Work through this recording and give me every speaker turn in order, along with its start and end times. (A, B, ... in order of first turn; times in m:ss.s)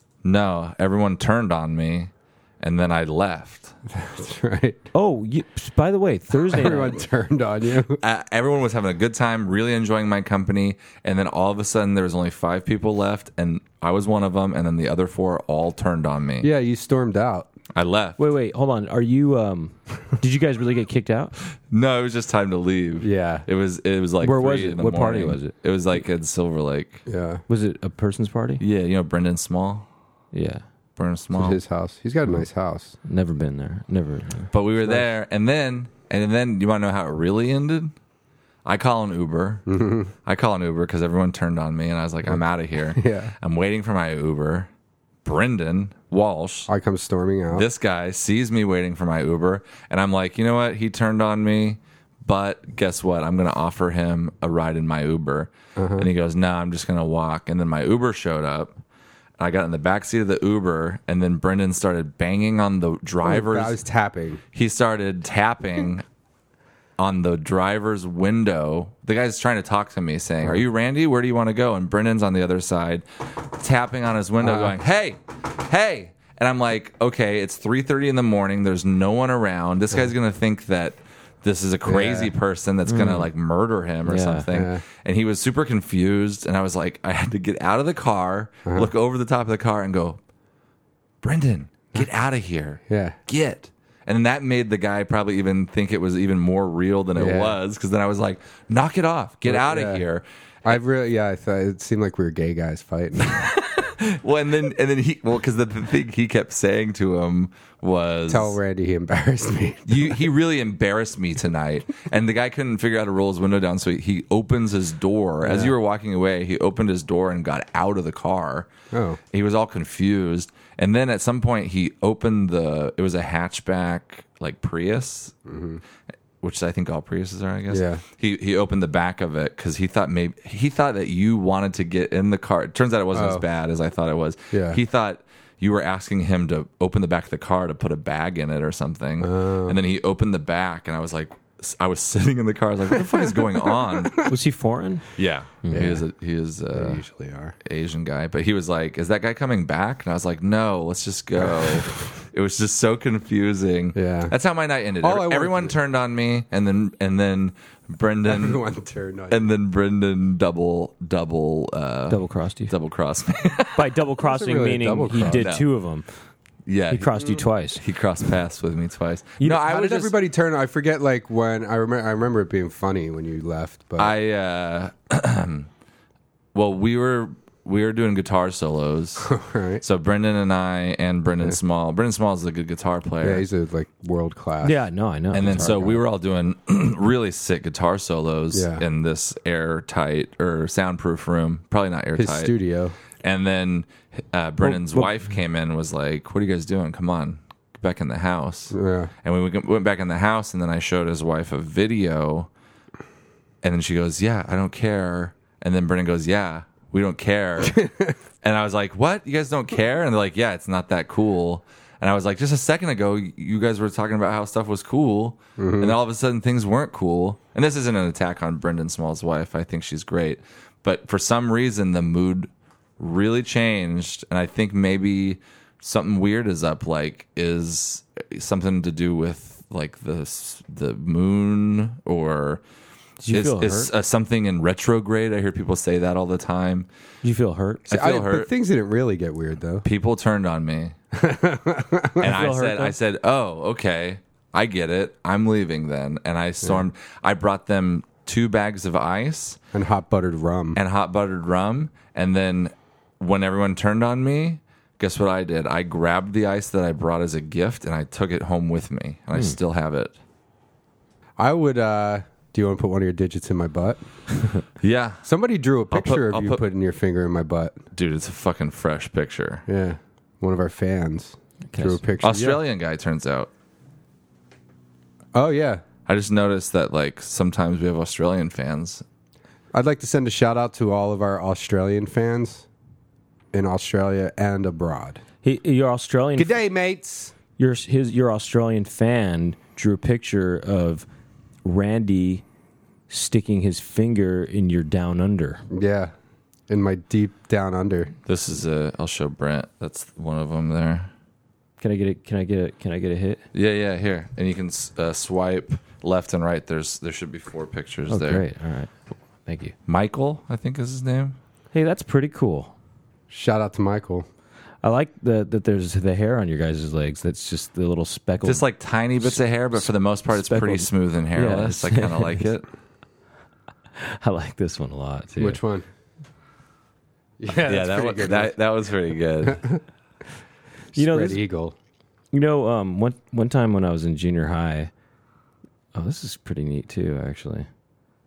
0:00.2-0:03.8 A
0:03.9-0:04.9 B
0:04.9-0:07.0 C
0:06.3-0:08.0 B
0:08.0-0:16.5 A
0:16.4-0:17.5 B
0:17.7-0:18.2 A
0:18.2-0:21.3 C
0:21.7-0:27.0 A
0:23.0-0:23.5 B
0:24.2-0:25.5 C
0:27.1-0:27.4 B
0:27.5-0:28.6 C
0:28.6-0:29.9 A
0:30.3-0:30.6 C
0:31.0-0:31.6 A
0:31.3-0:33.0 B
0:33.0-0:34.5 C
0:34.5-0:37.9 A
0:38.6-0:39.7 A
0:39.7-0:40.1 B
0:40.2-0:44.7 A
0:42.9-0:43.3 B
0:45.2-0:46.7 A
0:46.7-0:47.7 B
0:47.5-0:58.8 A
0:55.8-0:56.1 B
0:59.4-1:03.8 A
1:03.2-1:04.4 B
1:04.5-1:06.0 A
1:07.0-1:30.2 A
1:14.4-1:14.8 B
1:21.9-1:22.3 B
1:22.9-1:23.3 C
1:24.1-1:24.5 C
1:24.5-1:24.8 B
1:28.7-1:28.9 B
1:31.2-1:40.8 A
1:32.9-1:33.2 B
1:37.2-1:37.6 B
1:39.5-1:40.0 B
1:40.6-1:43.4 B
1:43.2-1:48.6 A
1:48.3-1:50.2 B
1:49.9-1:58.7 A
1:55.4-1:55.7 B
1:58.9-1:59.2 B
1:59.3-2:05.4 A
2:05.5-2:05.8 B
2:06.4-2:24.3 A
2:07.7-2:08.0 B
2:13.1-2:13.4 B
2:14.5-2:14.8 B
2:19.2-2:19.8 B
2:23.0-2:24.3 B
2:24.2-2:25.1 C
2:25.2-2:27.0 A
2:25.7-2:26.0 B
2:26.7-2:27.6 B
2:27.6-2:38.6 A
2:31.4-2:31.9 B
2:34.0-2:34.3 B
2:35.0-2:35.8 B
2:38.3-2:39.5 B
2:39.3-2:44.0 A
2:42.1-2:42.7 C
2:43.8-2:46.1 C
2:44.2-2:45.5 B
2:45.2-2:45.7 A
2:46.7-2:50.1 A
2:46.9-2:47.8 C
2:49.4-2:54.1 B
2:54.0-2:55.7 A
2:56.5-3:03.4 A
2:59.2-2:59.8 B
3:03.2-3:04.8 B
3:04.6-3:05.9 C
3:05.3-3:12.6 A
3:05.5-3:06.0 B
3:08.5-3:08.8 B
3:12.2-3:13.0 B
3:13.2-3:22.5 A
3:14.7-3:15.0 C
3:18.7-3:19.1 B
3:23.6-3:27.9 A
3:27.6-3:28.2 B
3:28.4-3:52.6 A
3:35.6-3:36.0 B
3:53.2-3:53.9 C
3:53.3-3:56.9 A
3:57.2-3:57.9 C
3:57.9-3:58.5 A
3:57.9-3:59.9 B
3:59.8-4:01.0 A
4:01.1-4:02.2 B
4:02.2-4:09.6 A
4:02.2-4:02.9 C
4:09.7-4:10.8 B
4:10.8-4:20.2 A
4:21.4-4:24.0 B
4:24.8-4:25.2 A
4:25.2-4:27.8 B
4:25.9-4:26.6 A
4:27.9-4:29.6 A
4:29.7-4:32.6 B
4:31.7-4:32.0 C
4:32.2-4:33.5 A
4:35.3-4:35.8 B
4:36.1-4:39.0 A
4:39.7-4:42.7 B
4:43.5-4:45.2 B
4:45.4-4:46.6 C
4:46.4-4:47.3 B
4:47.6-4:51.1 C
4:51.6-4:52.4 C
4:53.1-4:55.7 C
4:55.7-4:56.1 B
4:56.7-4:58.1 B
4:58.3-5:01.1 A
5:01.8-5:03.4 C
5:03.5-5:08.4 A
5:08.1-5:08.9 C
5:09.5-5:09.8 C
5:09.9-5:11.4 A
5:11.7-5:12.7 C
5:13.3-5:14.3 B
5:14.8-5:18.6 C
5:18.4-5:22.7 A
5:19.2-5:22.5 C
5:24.0-5:25.6 C
5:25.4-5:25.8 B
5:27.4-5:28.5 B
5:27.6-5:29.6 A
5:29.4-5:29.8 B
5:30.9-5:31.4 C
5:30.9-5:31.8 B
5:32.3-5:34.9 C
5:35.9-5:37.7 C